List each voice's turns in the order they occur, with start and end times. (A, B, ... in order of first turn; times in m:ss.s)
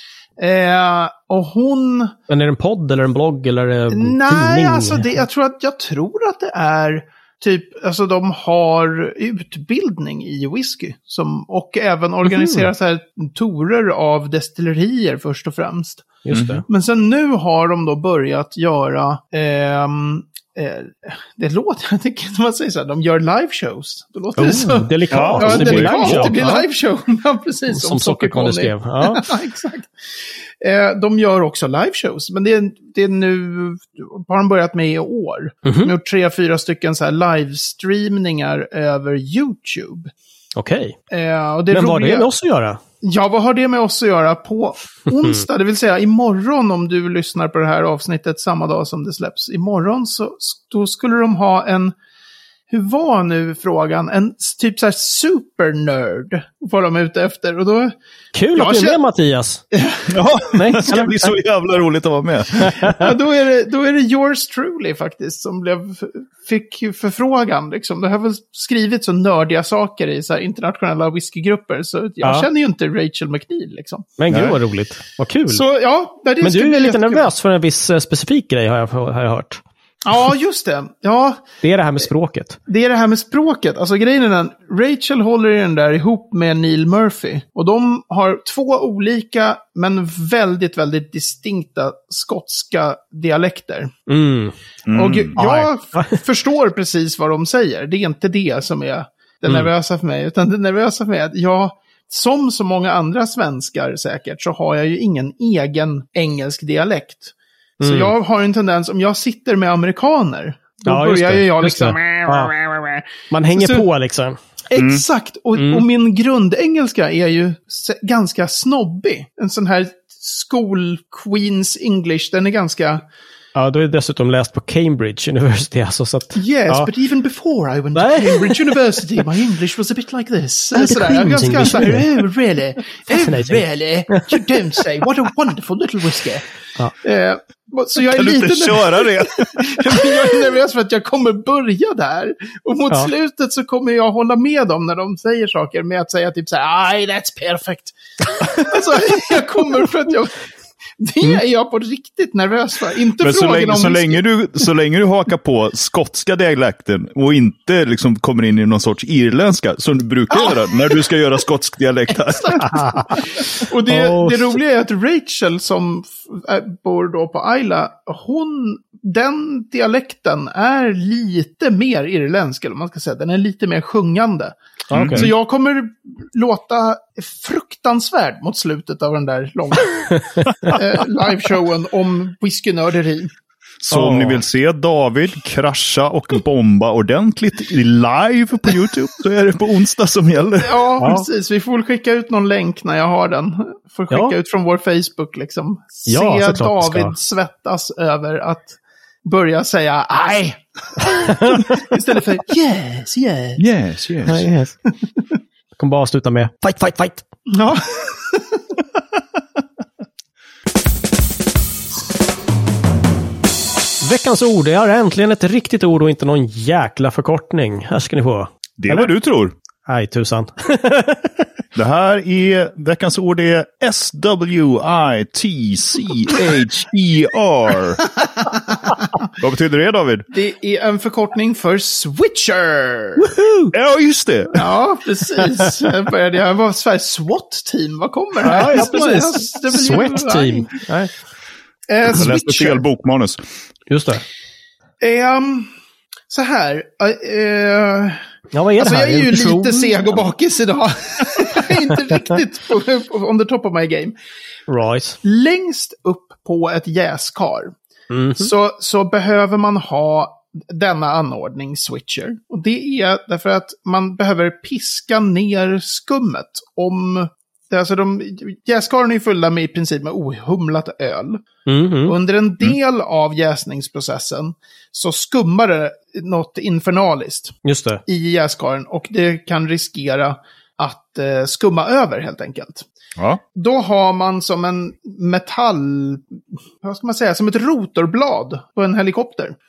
0:00.4-0:02.1 A
0:02.3-0:05.2 B
0:03.9-0:29.9 A
0:12.3-0:12.7 B
0:16.2-0:16.6 B
0:16.3-0:16.6 C
0:24.4-0:26.6 B
0:25.1-0:26.4 C
0:27.7-0:29.3 B
0:30.6-0:40.1 A
0:35.6-0:35.9 B
0:40.6-0:41.0 B
0:41.1-0:42.3 A
0:41.7-0:42.8 B
0:43.0-0:52.0 A
0:52.7-0:57.9 A
0:58.3-0:59.6 B
0:58.5-0:59.0 A
0:59.7-1:00.1 A
1:00.1-1:03.0 C
1:00.5-1:01.4 B
1:02.6-1:03.0 B
1:02.9-1:14.2 A
1:12.2-1:12.5 B
1:14.2-1:15.6 B
1:14.3-1:14.6 C
1:15.5-1:17.3 A
1:16.4-1:19.6 B
1:20.0-1:21.4 A
1:21.6-1:22.6 B
1:22.7-1:33.9 A
1:34.1-1:34.5 B
1:34.9-1:35.4 C
1:34.9-1:53.8 A
1:35.4-1:36.2 B
1:47.8-1:48.1 B
1:50.8-1:52.5 B
1:53.3-1:54.4 B
1:54.7-2:03.0 A
1:54.8-1:55.0 C
1:55.6-1:55.8 B
2:03.6-2:06.9 B
2:06.4-2:16.5 A
2:07.9-2:08.8 B
2:10.7-2:12.2 B
2:13.1-2:14.8 B
2:17.0-2:30.4 A
2:18.0-2:20.1 C
2:31.0-2:34.2 A
2:33.2-2:42.9 C
2:40.3-2:40.6 A
2:42.3-2:42.8 A
2:42.6-2:43.2 B
2:43.5-2:54.6 A
2:43.9-2:44.6 B
2:54.9-2:55.3 B
2:54.9-2:55.3 C
2:55.1-3:03.3 A
3:00.3-3:00.7 B
3:03.8-3:10.9 C
3:03.9-3:04.4 B
3:10.6-3:23.6 A
3:11.0-3:11.3 B
3:16.1-3:17.2 B
3:21.1-3:21.9 B
3:23.6-3:24.5 C
3:24.2-3:24.8 B
3:25.8-3:27.2 B
3:27.5-3:28.6 A
3:34.0-3:39.1 B
3:38.8-3:39.6 C
3:39.8-3:41.4 B
3:41.8-3:48.1 C
3:49.4-3:50.3 C
3:50.3-3:53.3 A
3:53.2-3:53.7 B
3:53.7-3:54.6 C
3:54.5-4:00.7 A
3:58.4-4:01.1 B
4:01.9-4:02.8 A
4:02.1-4:03.4 C
4:03.9-4:04.2 B
4:05.0-4:05.7 A
4:06.3-4:08.2 A
4:08.5-4:10.0 B
4:08.8-4:14.1 A
4:14.7-4:15.2 B
4:15.2-4:17.7 A
4:18.1-4:18.5 B
4:18.4-4:31.4 A
4:31.7-4:32.2 B
4:32.1-4:42.8 A
4:37.6-4:38.0 B
4:43.6-4:46.2 A
4:46.8-4:49.6 A